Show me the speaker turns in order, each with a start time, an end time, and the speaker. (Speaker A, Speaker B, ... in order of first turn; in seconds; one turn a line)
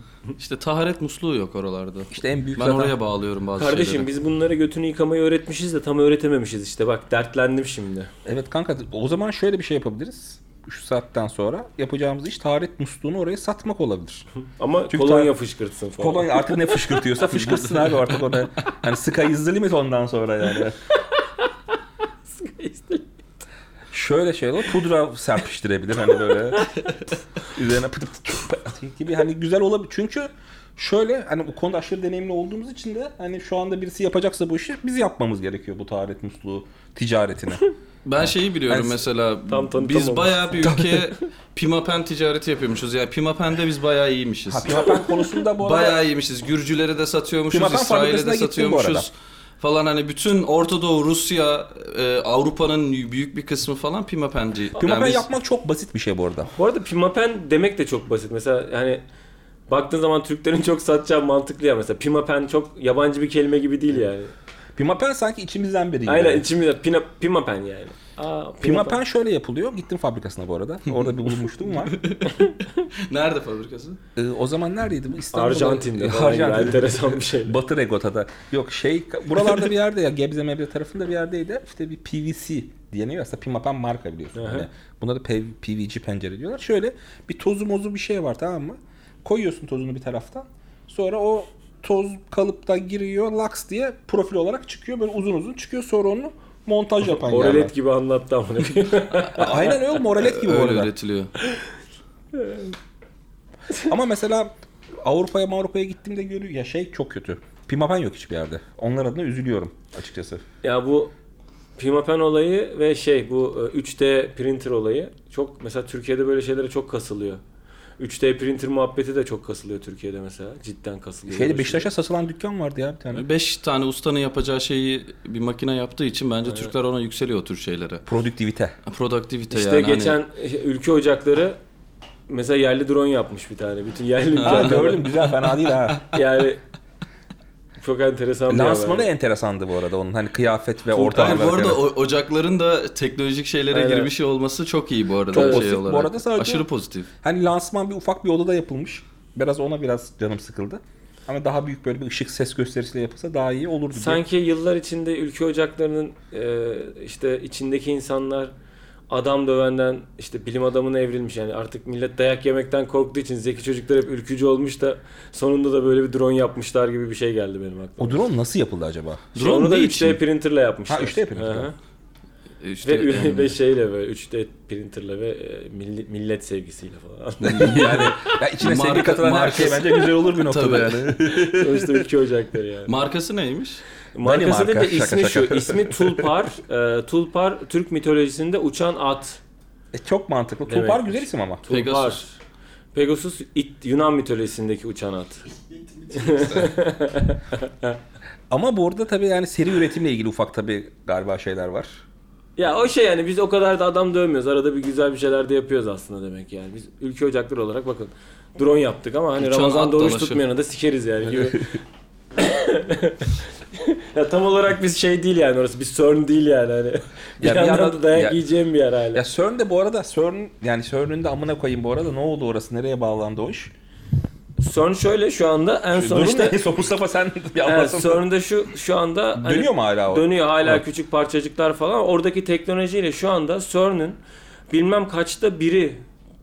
Speaker A: 0.4-4.1
Speaker B: 2.1-3.0
Speaker C: 3.6-8.1
Speaker B: 8.2-14.3
Speaker C: 14.6-17.0
Speaker B: 14.9-15.3
Speaker B: 16.0-20.8
Speaker C: 22.3-23.1
Speaker B: 23.9-26.9
Speaker B: 27.5-37.6
Speaker A: 38.0-45.0
Speaker B: 38.2-39.0
Speaker C: 39.5-40.4
Speaker B: 40.6-41.0
Speaker B: 44.5-46.0
Speaker A: 45.6-55.3
Speaker B: 47.5-49.1
Speaker B: 54.8-56.5
Speaker C: 56.6-59.0
Speaker C: 59.7-64.3
Speaker B: 64.8-66.5
Speaker C: 66.1-69.0
Speaker B: 68.6-72.0
Speaker A: 71.7-74.0
Speaker B: 74.2-97.7
Speaker C: 75.3-77.6
Speaker C: 84.3-84.7
Speaker C: 97.2-99.7
Speaker B: 99.3-100.9
Speaker A: 100.1-101.3
Speaker C: 102.3-102.7
Speaker B: 103.8-110.4
Speaker C: 110.6-111.1
Speaker C: 111.8-117.4
Speaker C: 118.0-121.9
Speaker B: 121.3-123.2
Speaker A: 123.1-128.1
Speaker C: 126.5-126.7
Speaker B: 128.1-128.8
Speaker A: 128.9-130.2
Speaker C: 129.5-131.6
Speaker C: 132.3-135.1
Speaker A: 134.4-136.0
Speaker B: 134.4-136.0
Speaker C: 136.1-136.6
Speaker C: 137.8-139.1
Speaker B: 138.5-141.8
Speaker A: 141.0-147.1
Speaker C: 143.7-144.1
Speaker B: 145.3-146.7
Speaker C: 145.3-145.6
Speaker B: 147.2-154.2
Speaker C: 153.9-158.5
Speaker C: 159.1-168.2
Speaker B: 168.0-169.3
Speaker A: 169.3-170.2
Speaker C: 169.3-171.8
Speaker B: 170.9-171.7
Speaker A: 172.6-173.6
Speaker C: 172.8-178.1
Speaker A: 177.5-178.0
Speaker B: 177.5-182.1
Speaker A: 178.6-181.1
Speaker C: 181.5-182.9
Speaker A: 182.9-183.8
Speaker C: 184.2-189.4
Speaker B: 184.2-186.3
Speaker B: 189.9-191.6
Speaker C: 190.7-192.4
Speaker A: 191.7-192.2
Speaker C: 192.9-195.5
Speaker C: 196.1-198.0
Speaker B: 198.5-202.0
Speaker C: 202.6-211.8
Speaker A: 209.4-210.4
Speaker C: 212.3-219.2
Speaker B: 217.4-218.4
Speaker B: 219.1-223.7
Speaker C: 224.6-226.6
Speaker B: 225.9-228.2
Speaker C: 227.7-236.0
Speaker B: 229.4-230.8